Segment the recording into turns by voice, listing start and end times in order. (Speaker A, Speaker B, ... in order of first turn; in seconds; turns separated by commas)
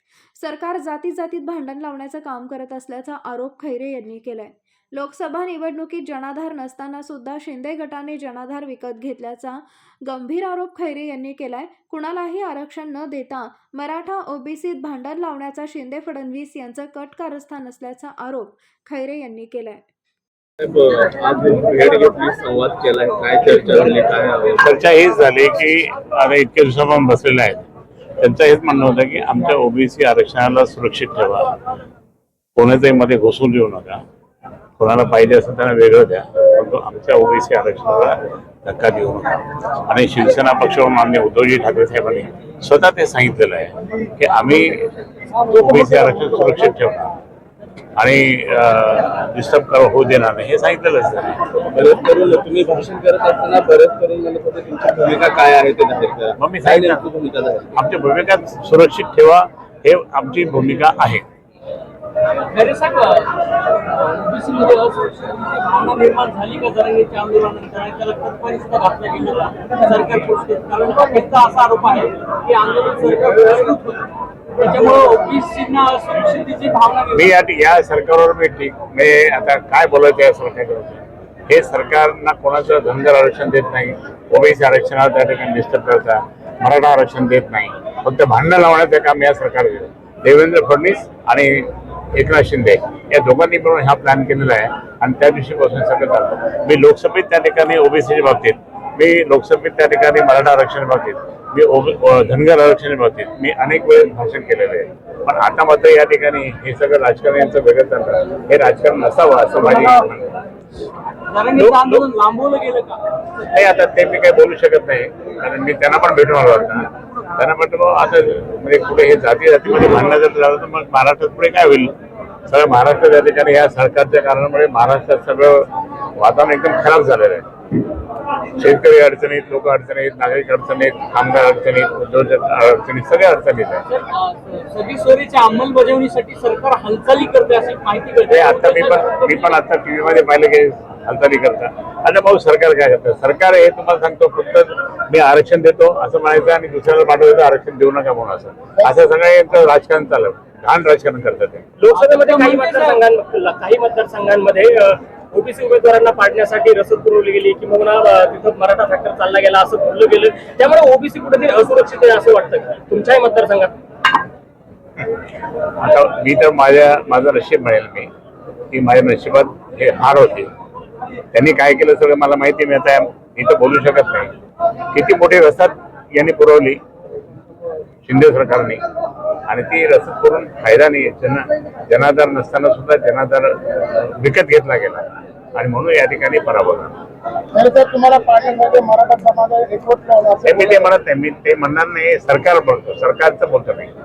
Speaker A: 0.4-19.8, Speaker B: 20.6-24.6, Speaker C: 24.6-27.6, Speaker C: 28.2-31.5, Speaker C: 32.5-34.0, Speaker C: 34.8-44.9, Speaker C: 45.5-47.1, Speaker C: 48.0-51.5, Speaker B: 51.7-57.7, Speaker C: 56.4-57.0, Speaker C: 57.7-61.2, Speaker D: 62.5-77.3, Speaker C: 77.1-110.3, Speaker D: 111.3-113.0, Speaker C: 111.5-112.0, Speaker C: 113.5-121.9, Speaker C: 122.5-127.5, Speaker C: 128.6-133.8, Speaker D: 133.9-139.6, Speaker C: 138.3-151.6, Speaker E: 151.8-163.7, Speaker D: 151.9-153.0, Speaker C: 165.8-168.1, Speaker C: 168.7-170.5, Speaker C: 171.3-174.3, Speaker C: 174.9-176.8, Speaker C: 178.0-178.8, Speaker C: 179.5-186.9, Speaker F: 187.5-190.4, Speaker C: 190.4-193.9